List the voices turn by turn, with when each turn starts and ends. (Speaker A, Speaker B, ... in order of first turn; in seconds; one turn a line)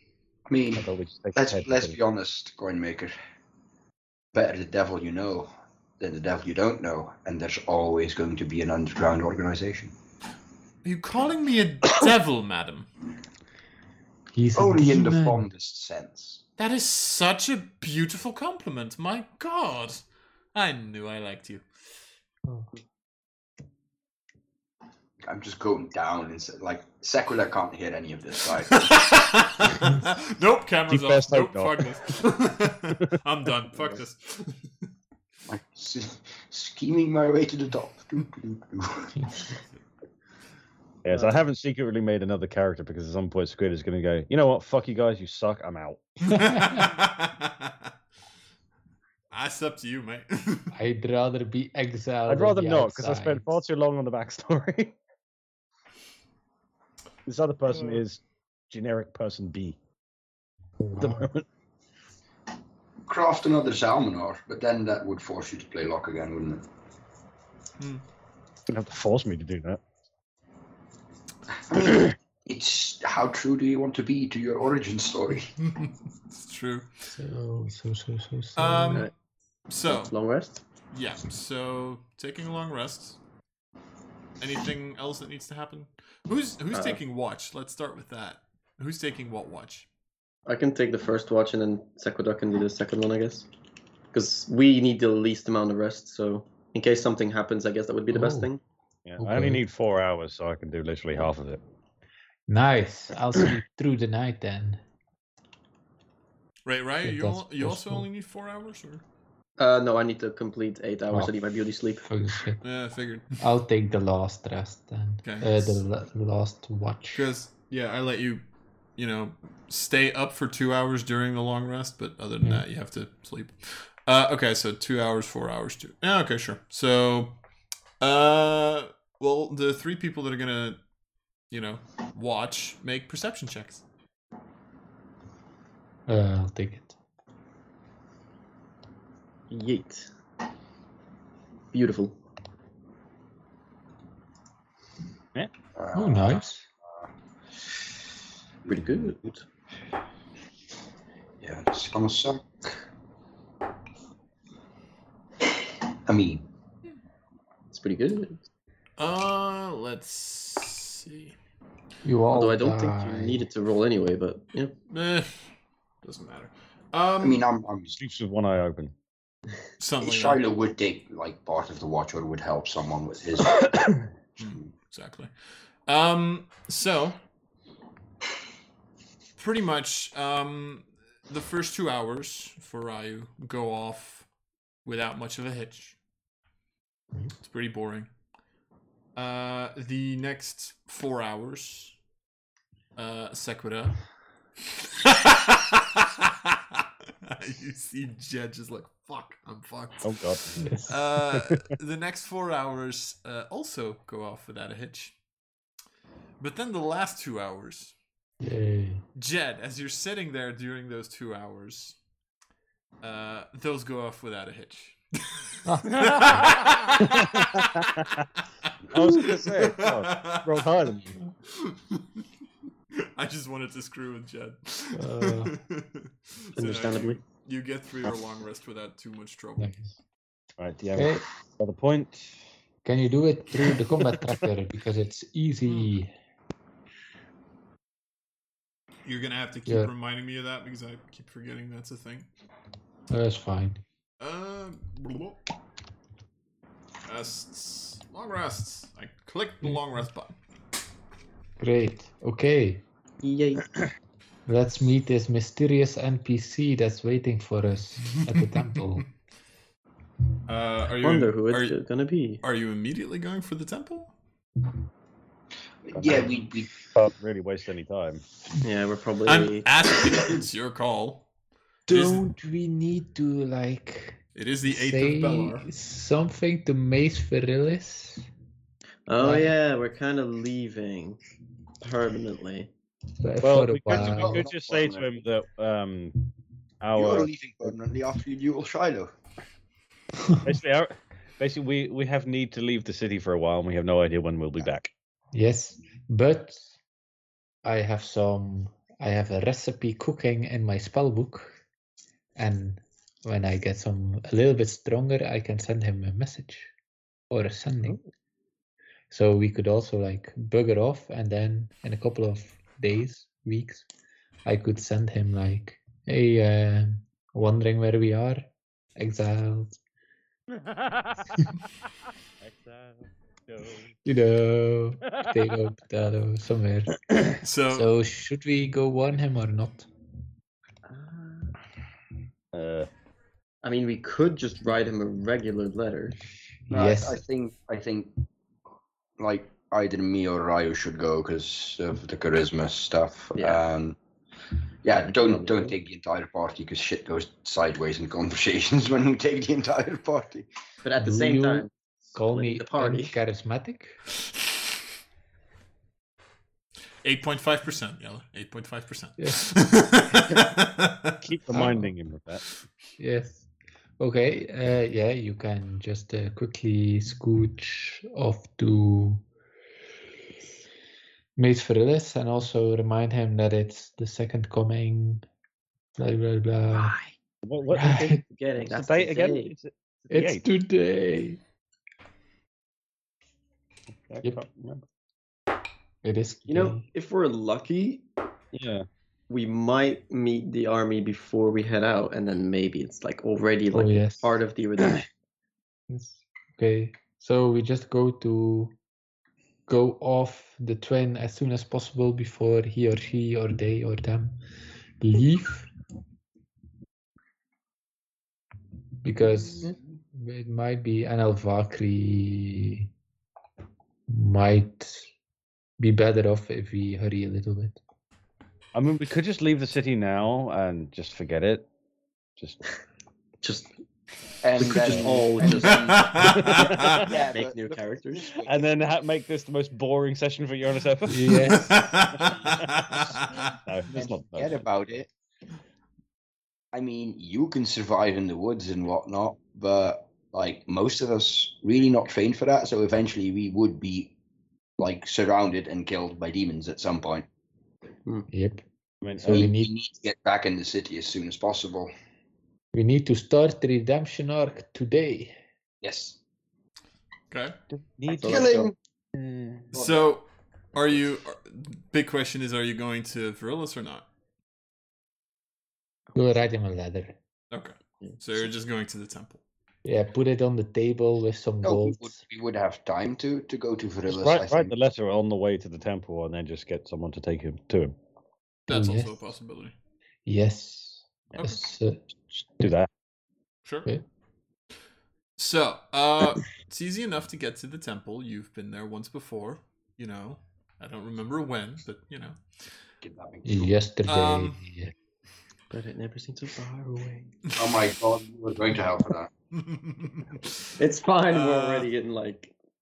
Speaker A: 0.5-3.2
Speaker B: 0.8-2.0
Speaker A: 4.3-9.9
Speaker C: 10.8-12.9
Speaker D: 14.3-15.5
Speaker A: 14.6-16.4
Speaker C: 16.6-20.0
Speaker C: 20.5-21.7
Speaker D: 22.5-22.7
Speaker A: 25.2-29.1
Speaker C: 28.7-34.7
Speaker B: 30.9-31.9
Speaker A: 35.5-39.1
Speaker B: 41.0-46.1
Speaker C: 46.2-47.9
Speaker C: 49.3-50.7
Speaker D: 50.7-53.5
Speaker B: 52.3-55.0
Speaker B: 57.3-59.8
Speaker D: 60.8-61.3
Speaker B: 61.0-61.5
Speaker A: 63.1-66.7
Speaker B: 68.7-69.8
Speaker A: 71.7-75.5
Speaker C: 75.6-76.9
Speaker D: 77.1-79.1
Speaker C: 78.6-79.1
Speaker C: 79.7-80.1
Speaker E: 79.9-80.6
Speaker C: 80.9-83.2
Speaker C: 84.4-89.9
Speaker E: 86.7-87.0
Speaker E: 90.5-93.5
Speaker E: 94.1-98.6
Speaker D: 98.1-98.5
Speaker B: 99.0-101.6
Speaker D: 99.2-99.6
Speaker D: 102.5-104.8
Speaker C: 106.7-109.0
Speaker D: 107.0-108.1
Speaker E: 109.6-112.1
Speaker D: 112.0-112.6
Speaker C: 112.6-113.4
Speaker D: 113.4-117.3
Speaker C: 115.2-115.8
Speaker C: 117.1-118.4
Speaker C: 119.0-127.4
Speaker C: 128.0-130.8
Speaker C: 131.5-133.8
Speaker D: 136.1-137.0
Speaker E: 139.5-140.1
Speaker E: 141.7-142.2
Speaker A: 145.8-146.5
Speaker D: 145.9-146.6
Speaker E: 148.7-149.4
Speaker A: 151.4-152.8
Speaker A: 156.1-156.4
Speaker E: 157.7-158.4
Speaker C: 159.0-161.4
Speaker D: 162.0-163.5
Speaker E: 162.3-164.7
Speaker C: 164.9-165.5
Speaker C: 166.0-167.4
Speaker A: 167.2-168.0
Speaker B: 167.9-168.9
Speaker C: 169.8-170.4
Speaker A: 170.0-174.7
Speaker C: 174.4-175.3
Speaker C: 175.9-177.2
Speaker C: 179.4-184.3
Speaker C: 184.8-186.0
Speaker C: 187.4-188.1
Speaker C: 189.2-192.0
Speaker C: 193.0-194.0
Speaker C: 194.8-200.2
Speaker B: 200.0-200.7
Speaker D: 200.6-200.9
Speaker C: 200.8-205.2
Speaker B: 201.3-201.6
Speaker C: 206.4-207.9
Speaker D: 208.4-209.0
Speaker C: 209.2-212.0
Speaker C: 213.0-218.1
Speaker D: 215.7-216.6
Speaker B: 217.0-218.2
Speaker C: 218.6-220.7
Speaker B: 218.9-221.2
Speaker C: 221.5-222.0
Speaker C: 223.0-229.8
Speaker D: 224.9-225.6
Speaker E: 226.6-227.2
Speaker D: 229.6-229.9
Speaker B: 230.6-232.4
Speaker D: 230.9-231.3
Speaker D: 232.8-236.1
Speaker B: 234.1-234.4
Speaker C: 235.7-235.9
Speaker C: 239.1-242.3
Speaker D: 239.7-239.9
Speaker D: 243.1-243.8
Speaker C: 244.2-245.4
Speaker C: 247.1-250.4
Speaker D: 251.6-252.8
Speaker E: 253.2-253.8
Speaker D: 254.5-259.1
Speaker C: 258.2-258.7
Speaker C: 260.5-261.8
Speaker E: 261.0-262.4
Speaker C: 262.4-264.1
Speaker A: 265.9-266.7
Speaker B: 265.9-266.3
Speaker B: 266.9-268.2
Speaker E: 268.6-269.7
Speaker C: 269.3-271.3
Speaker D: 271.9-278.3
Speaker C: 271.9-272.2
Speaker C: 274.4-275.7
Speaker E: 279.1-281.2
Speaker D: 279.2-279.6
Speaker E: 281.8-282.7
Speaker D: 283.2-284.4
Speaker B: 283.4-286.2
Speaker A: 283.9-285.2
Speaker B: 286.8-287.8
Speaker A: 286.9-289.1
Speaker B: 290.4-294.9
Speaker D: 295.3-296.7
Speaker D: 297.6-301.6
Speaker D: 302.4-306.7
Speaker D: 307.3-308.0
Speaker D: 309.1-313.9
Speaker D: 314.4-319.8
Speaker B: 320.7-321.3
Speaker B: 322.4-323.9
Speaker D: 324.1-327.0
Speaker C: 327.4-327.9
Speaker D: 327.7-329.9
Speaker E: 330.9-331.6
Speaker B: 332.5-332.9
Speaker E: 333.6-336.2
Speaker D: 336.7-337.2
Speaker A: 336.7-338.1
Speaker A: 339.2-344.0
Speaker E: 343.4-343.6
Speaker A: 344.8-350.5
Speaker E: 345.1-345.7
Speaker E: 350.8-351.7
Speaker D: 351.0-354.0
Speaker E: 352.3-353.2
Speaker C: 357.0-361.2
Speaker B: 361.2-362.4
Speaker D: 361.5-361.9
Speaker D: 363.0-363.5
Speaker D: 364.0-369.2
Speaker D: 371.4-375.2
Speaker D: 376.0-377.0
Speaker B: 377.4-378.1
Speaker D: 377.7-378.2
Speaker E: 377.8-379.5
Speaker B: 378.6-380.5
Speaker D: 380.1-381.4
Speaker B: 384.1-384.8
Speaker D: 386.0-386.9
Speaker E: 386.5-388.1
Speaker B: 388.5-388.9
Speaker E: 389.3-395.1
Speaker D: 393.7-394.4
Speaker D: 395.9-398.7
Speaker D: 399.7-404.4
Speaker D: 405.0-405.7
Speaker D: 409.0-412.9
Speaker D: 414.1-415.1
Speaker D: 415.8-417.8
Speaker B: 418.7-421.7
Speaker E: 423.4-423.7
Speaker A: 424.4-428.7
Speaker E: 424.6-426.1
Speaker C: 425.7-427.0
Speaker B: 426.5-427.0
Speaker E: 426.6-428.3
Speaker B: 428.4-434.9
Speaker D: 431.1-431.9
Speaker C: 431.5-433.5
Speaker A: 433.9-435.1
Speaker A: 436.7-444.1
Speaker A: 444.8-447.3
Speaker D: 448.3-448.6
Speaker B: 449.0-449.5
Speaker D: 449.2-449.7
Speaker A: 449.2-451.9
Speaker D: 452.7-455.4
Speaker A: 455.8-456.2
Speaker C: 457.3-457.6
Speaker B: 457.7-458.6
Speaker E: 458.1-458.7
Speaker A: 458.2-458.8
Speaker C: 459.7-464.1
Speaker D: 466.1-467.2
Speaker C: 467.5-469.4
Speaker D: 469.9-472.2
Speaker A: 471.6-474.8
Speaker B: 474.1-477.9
Speaker C: 478.7-479.8
Speaker D: 478.7-479.3
Speaker D: 480.2-482.1
Speaker B: 482.6-482.9
Speaker C: 483.6-483.9
Speaker C: 485.4-492.4
Speaker A: 493.0-493.8
Speaker D: 493.4-494.9
Speaker C: 494.1-494.6
Speaker E: 495.7-497.3
Speaker A: 497.6-499.3
Speaker C: 499.5-500.8
Speaker E: 500.8-502.5
Speaker C: 501.3-501.9